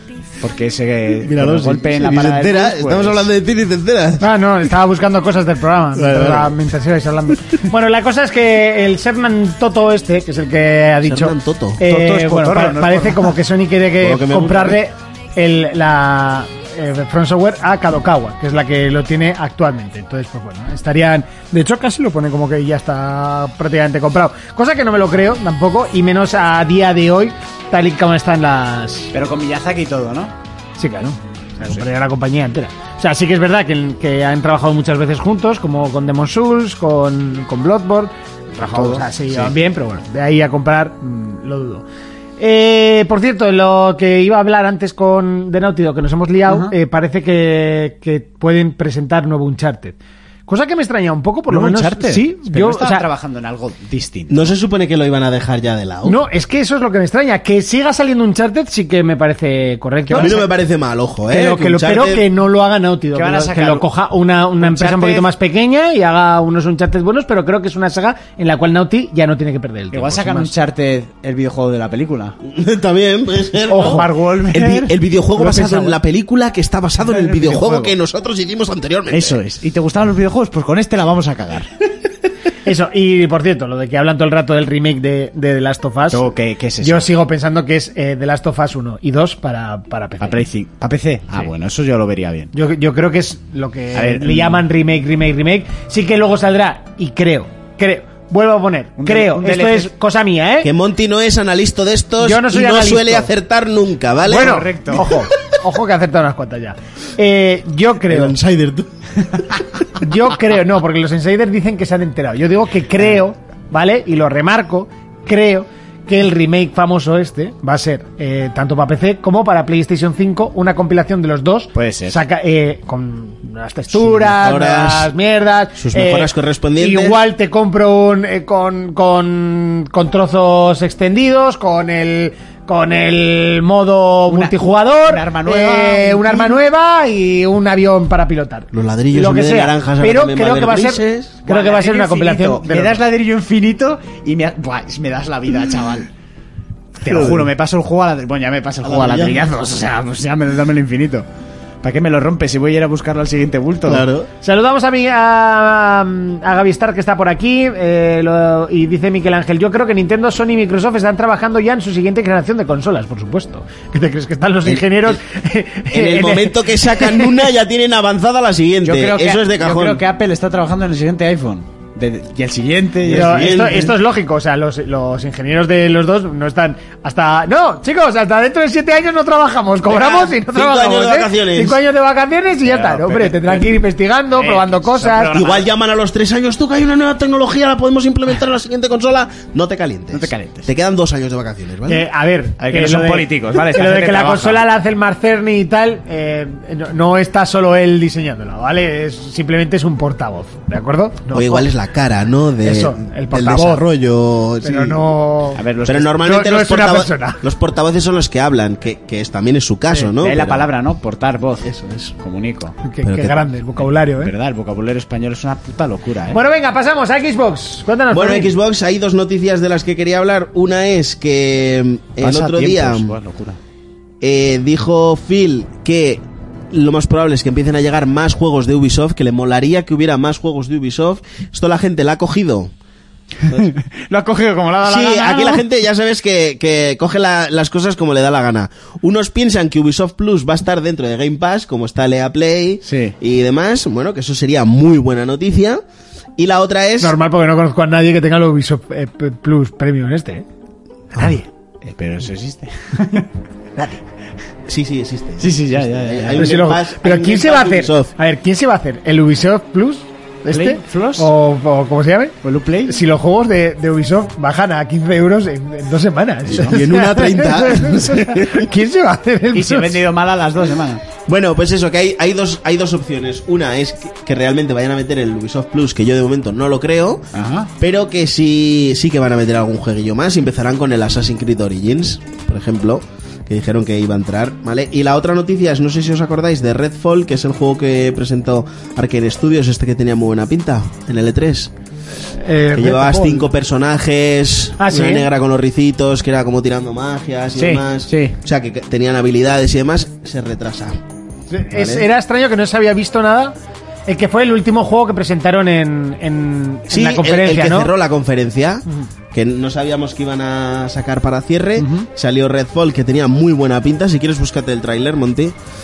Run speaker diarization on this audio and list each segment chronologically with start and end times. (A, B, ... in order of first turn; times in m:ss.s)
0:00.4-0:03.3 A
0:01.2-0:04.3 B
0:04.2-0:29.1 C
0:05.9-0:06.6 B
0:11.0-0:11.8 B
0:11.8-0:13.3 A
0:14.0-0:14.8 B
0:29.1-0:30.3 A
0:30.8-0:41.8 C
0:38.7-0:39.5 A
0:42.4-0:50.0 C
0:46.5-0:46.7 A
0:50.5-0:53.0 C
0:51.5-0:54.5 A
0:54.3-0:56.2 B
0:56.0-1:00.5 C
1:00.1-1:00.4 A
1:00.1-1:02.3 B
1:01.3-1:10.5 C
1:03.1-1:03.9 A
1:04.6-1:05.3 A
1:09.9-1:12.4 A
1:12.4-1:19.4 B
1:13.7-1:14.9 A
1:13.7-1:14.1 C
1:15.4-1:16.0 C
1:17.0-1:17.9 A
1:19.1-1:21.7 A
1:22.6-1:26.3 C
1:26.1-1:27.1 A
1:26.8-1:30.4 C
1:30.2-1:32.5 A
1:32.5-1:40.7 C
1:33.9-1:34.6 A
1:39.0-1:39.9 A
1:40.6-1:44.6 B
1:42.2-1:43.3 C
1:44.2-1:45.2 A
1:44.2-1:48.4 C
1:48.1-1:48.9 B
1:49.9-2:23.0 C
2:01.8-2:02.2 A
2:03.9-2:05.1 B
2:05.8-2:07.2 B
2:14.3-2:16.6 A
2:18.7-2:21.4 B
2:21.5-2:26.1 A
2:27.0-2:31.3 A
2:27.1-2:27.5 B
2:28.8-2:29.5 B
2:31.8-2:34.1 A
2:33.9-2:34.3 B
2:34.4-2:47.5 C
2:44.6-2:45.2 B
2:45.9-2:50.0 B
2:48.8-2:53.9 A
2:53.0-2:53.9 B
2:53.1-3:05.4 C
2:59.9-3:01.8 B
3:02.6-3:03.6 A
3:04.4-3:05.7 A
3:05.3-3:12.1 B
3:10.1-3:10.7 A
3:11.9-3:21.7 C
3:12.6-3:14.6 A
3:21.3-3:25.0 B
3:22.6-3:23.9 C
3:24.6-3:25.6 C
3:25.6-3:26.2 A
3:25.8-3:30.7 B
3:26.2-3:27.4 C
3:29.9-3:31.7 A
3:31.6-3:32.1 B
3:32.2-3:32.8 A
3:32.8-3:34.3 C
3:33.0-3:33.4 B
3:34.0-3:36.4 A
3:36.3-3:38.5 C
3:38.1-3:43.1 B
3:42.2-3:43.6 A
3:44.2-3:52.7 B
3:53.4-3:55.6 A
3:53.5-3:53.7 B
3:54.8-4:05.8 B
4:02.8-4:03.1 A
4:06.4-4:07.2 B
4:07.0-4:10.5 C
4:11.2-4:13.3 A
4:14.6-4:18.1 B
4:15.4-4:16.5 A
4:16.3-4:30.0 C
4:20.5-4:21.3 A
4:22.4-4:23.0 A
4:26.5-4:28.7 B
4:29.5-4:31.0 A
4:31.3-4:37.3 B
4:37.3-4:37.7 A
4:37.8-4:51.7 B
4:52.3-4:53.5 C
4:52.7-5:01.0 B
4:54.8-4:55.3 C
4:57.6-4:58.4 A
5:01.5-5:03.6 C
5:01.7-5:02.1 B
5:04.1-5:07.9 C
5:06.9-5:15.6 B
5:11.8-5:12.1 A